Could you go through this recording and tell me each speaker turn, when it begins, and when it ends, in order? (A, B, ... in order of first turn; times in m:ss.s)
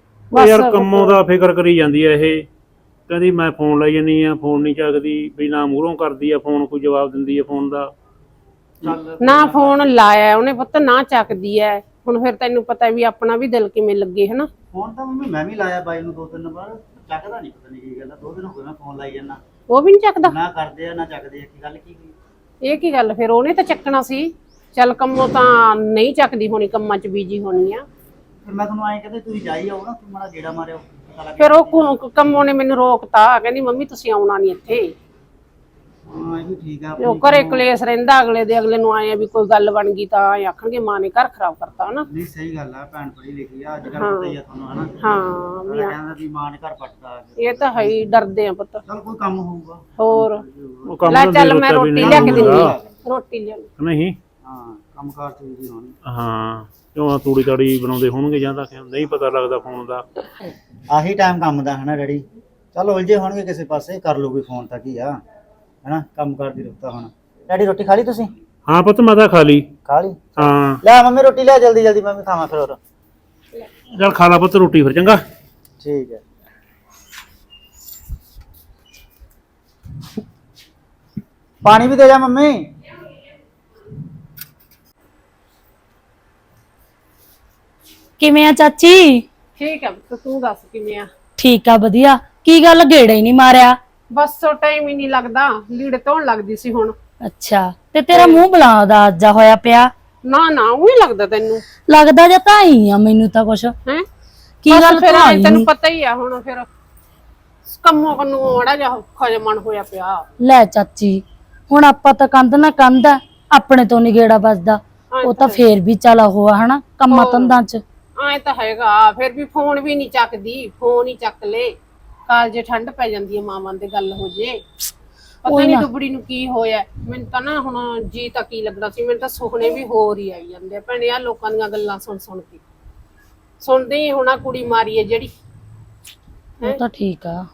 0:00.3-0:01.2 A
0:00.3-0:02.4 B
0:03.1-0:07.9 B
0:08.8-0:09.9 C
0:09.2-0:14.5 A
0:14.7-0:19.4 C
0:19.7-0:20.4 A
0:20.2-0:22.1 C
0:22.6-0:27.9 A
0:28.4-0:32.0 C
0:31.4-0:34.9 A
0:36.1-0:37.6 C
0:37.0-0:42.1 A
0:42.1-0:44.9 C
0:44.0-0:44.4 A
0:45.0-0:46.0 A
0:45.7-0:48.0 C
0:47.4-0:48.8 A
0:48.9-0:51.1 C
0:50.0-0:50.4 A
0:50.9-0:52.7 B
0:51.1-0:53.7 A
0:51.9-0:52.8 C
0:53.8-0:54.2 B
0:54.4-0:56.0 C
0:56.1-1:00.0 B
1:00.9-1:02.2 C
1:02.7-1:05.2 C
1:05.8-1:08.3 C
1:08.7-1:09.6 B
1:09.9-1:12.8 C
1:10.4-1:10.8 B
1:14.0-1:15.2 B
1:15.8-1:16.2 C
1:21.6-1:22.7 C
1:28.2-1:29.2 D
1:29.6-1:31.1 A
1:31.4-1:33.8 D
1:34.1-1:37.0 A
1:37.2-1:39.9 D
1:38.1-1:38.4 A
1:40.3-1:41.6 A
1:41.9-1:43.7 D
1:44.6-1:45.7 D
1:44.7-1:46.7 A
1:47.7-1:50.2 A
1:50.4-1:57.8 D
1:55.1-1:55.6 A
1:57.1-1:57.6 A
1:58.2-2:01.7 A
2:02.3-2:04.6 A
2:05.5-2:12.6 A
2:05.5-2:05.9 D
2:13.6-2:15.3 A
2:16.6-2:17.4 D